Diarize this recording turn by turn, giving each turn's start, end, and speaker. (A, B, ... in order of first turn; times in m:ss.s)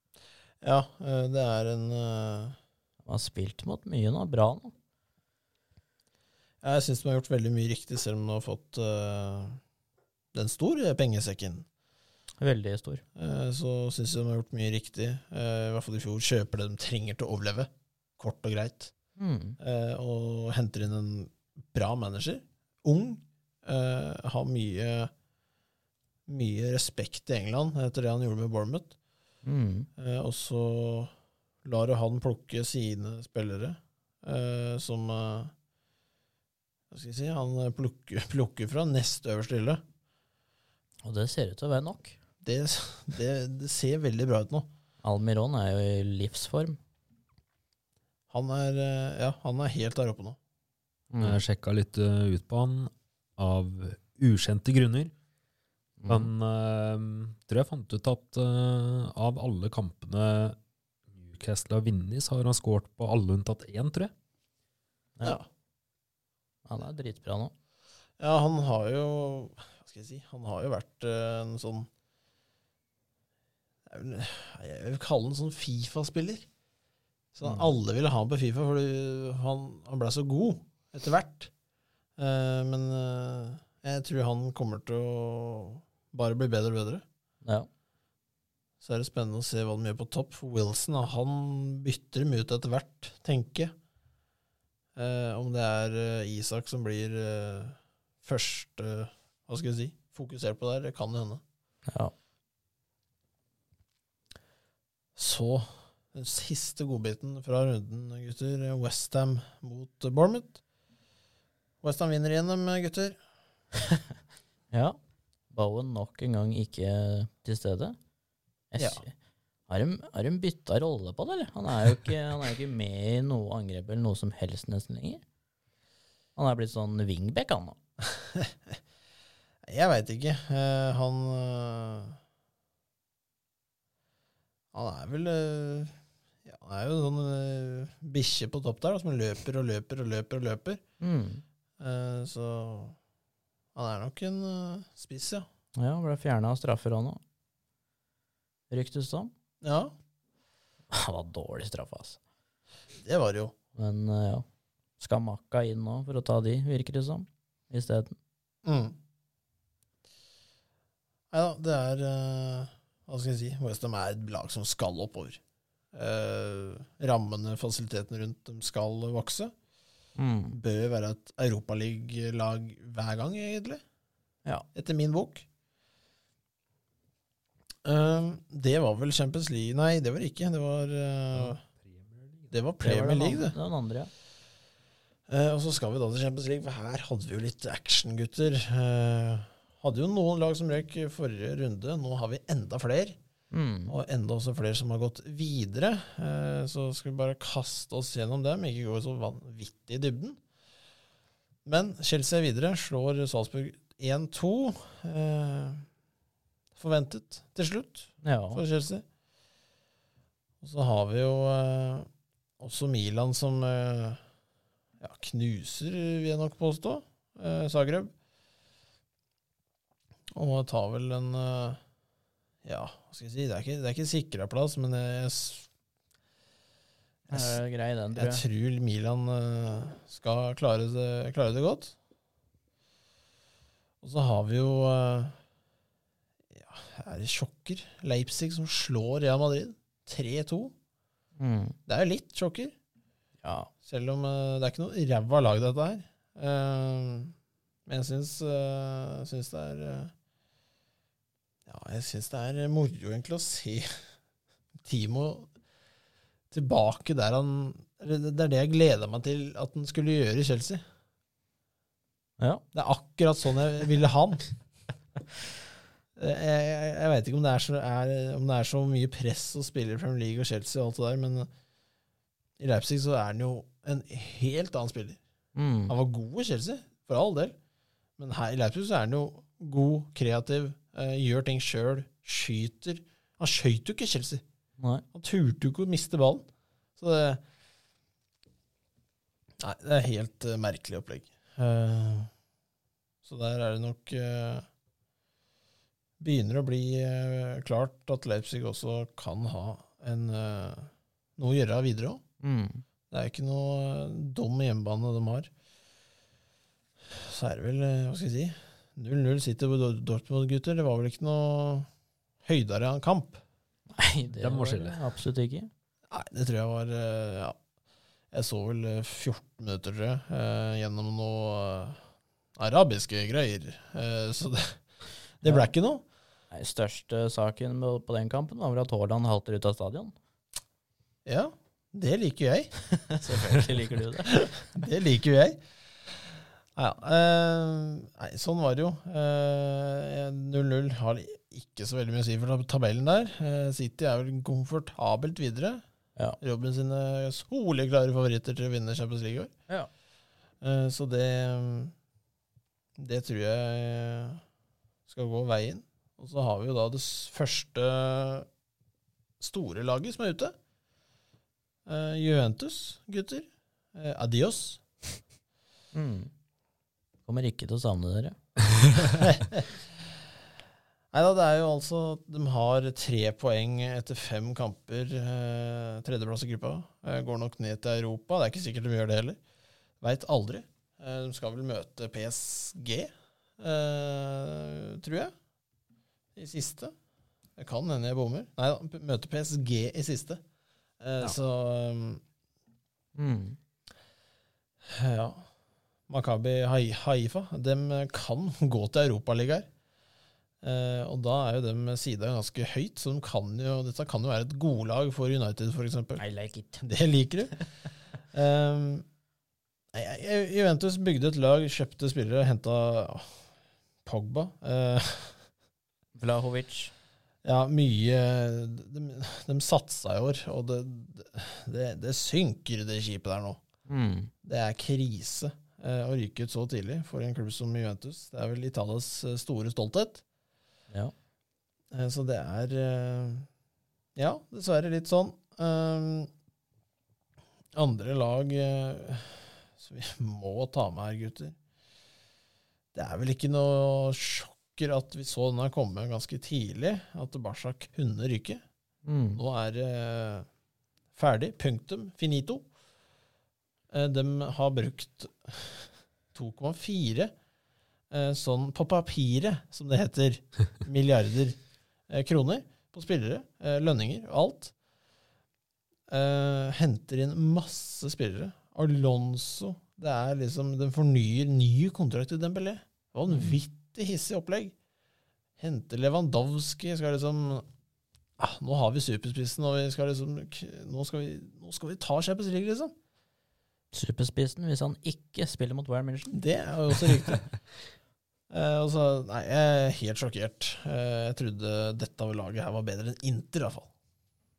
0:00.6-0:02.6 A
0:03.0-0:04.7 B
0:06.6-0:09.6 A
0:10.3-0:11.6 A
0:12.4-0:13.0 B
0:13.2-0:18.9 A
0:19.2-0:19.6 B
0:19.6-0:25.1 A
0:26.3-0:28.9 A
0:29.4-0:29.9 B
0:30.0-0:31.1 A
0:31.6-0:35.5 A
0:36.9-0:39.8 A
0:41.0-0:42.2 B
0:42.4-0:44.7 A
0:45.0-0:46.8 B
0:48.3-0:50.4 A
0:51.1-0:51.4 B
0:51.2-0:55.1 C
0:56.0-0:56.3 B
0:56.1-1:00.6 C
1:01.1-1:04.1 C
1:06.6-1:07.5 B
1:08.2-1:11.9 A
1:13.9-1:16.5 A
1:17.3-1:21.5 A
1:17.4-1:17.7 B
1:22.2-1:27.0 A
1:28.8-1:33.7 A
1:35.0-1:41.4 A
1:41.9-1:42.1 B
1:45.2-1:50.6 A
1:51.8-1:53.2 A
1:54.7-1:55.0 B
1:55.5-1:58.0 B
1:58.7-1:59.1 B
1:58.8-1:59.0 A
1:59.7-2:05.2 B
2:06.4-2:07.8 B
2:08.2-2:08.5 A
2:09.6-2:12.2 A
2:14.7-2:20.8 A
2:21.0-2:21.4 B
2:21.8-2:23.0 A
2:23.7-2:25.4 A
2:25.8-2:27.2 B
2:28.7-2:29.3 B
2:29.6-2:29.9 A
2:30.9-2:32.2 B
2:33.0-2:33.5 A
2:33.7-2:34.4 B
2:35.0-2:38.2 B
2:38.6-2:39.0 A
2:41.3-2:45.4 A
2:45.9-2:49.5 A
2:50.2-2:50.6 B
2:50.5-2:53.8 A
2:54.7-2:55.4 A
2:57.8-3:01.6 A
3:01.3-3:02.5 C
3:02.5-3:03.6 A
3:02.8-3:04.1 B
3:05.3-3:13.2 A
3:13.5-3:14.0 B
3:13.9-3:20.4 A
3:21.6-3:25.8 A
3:26.8-3:29.0 A
3:28.2-3:28.6 B
3:30.6-3:32.1 A
3:32.6-3:34.2 A
3:35.0-3:38.1 A
3:40.3-3:41.8 A
3:42.6-3:45.7 A
3:47.3-3:47.6 A
3:47.3-3:48.4 B
3:48.1-3:52.0 A
3:54.0-3:55.4 A
3:56.5-4:00.7 A
4:01.4-4:01.8 B
4:01.9-4:02.7 A
4:03.4-4:03.7 B
4:03.8-4:07.3 A
4:07.8-4:10.1 A
4:11.6-4:14.0 A
4:14.8-4:15.5 A
4:16.5-4:20.8 A
4:22.4-4:22.6 B
4:22.7-4:24.4 A
4:26.2-4:31.5 A
4:32.6-4:35.2 A
4:35.5-4:35.9 B
4:35.9-4:37.5 A
4:38.2-4:44.4 A
4:44.8-4:45.0 B
4:45.1-4:46.4 A
4:47.0-4:47.4 A
4:49.6-4:52.3 A
4:53.2-4:54.7 A
4:56.2-5:02.2 A
5:02.4-5:02.8 B
5:03.1-5:05.5 A
5:07.1-5:11.9 A
5:12.4-5:13.4 A
5:13.9-5:15.7 B
5:14.4-5:15.0 C
5:16.1-5:17.6 A
5:18.3-5:22.0 A
5:22.6-5:24.8 A
5:25.4-5:26.0 A
5:26.5-5:30.1 B
5:31.2-5:32.7 A
5:33.0-5:34.5 B
5:34.2-5:36.2 A
5:36.7-5:45.8 A
5:46.4-5:49.5 A
5:50.6-5:51.9 A
5:53.0-5:54.4 A
5:55.1-5:58.5 A
5:59.4-6:00.5 A
6:01.8-6:04.8 A
6:05.9-6:06.3 B
6:07.3-6:08.4 B
6:09.0-6:09.7 A
6:11.1-6:19.4 A
6:20.0-6:25.3 A
6:26.4-6:26.9 A
6:27.6-6:30.4 A
6:31.0-6:32.2 A
6:33.1-6:33.6 B
6:34.8-6:35.5 A
6:36.1-6:39.7 A
6:40.6-6:46.2 A
6:46.2-6:46.8 B
6:46.8-6:47.5 A
6:48.3-6:49.0 A
6:49.9-6:53.4 A
6:54.0-6:55.4 A
6:56.2-6:56.9 B
6:57.4-7:03.6 A
7:03.9-7:04.3 B
7:04.4-7:10.2 A
7:11.9-7:13.5 A
7:14.2-7:16.3 A
7:17.7-7:21.6 A
7:22.9-7:28.6 A
7:29.0-7:29.4 B
7:29.4-7:30.5 A
7:31.2-7:32.7 A
7:33.9-7:37.3 A
7:38.1-7:41.6 A
7:42.1-7:44.7 A
7:46.1-7:54.7 A
7:53.3-7:53.5 B
7:55.6-7:57.7 A
7:58.4-8:02.9 A
8:03.9-8:06.3 B
8:06.3-8:07.4 A
8:08.5-8:13.9 A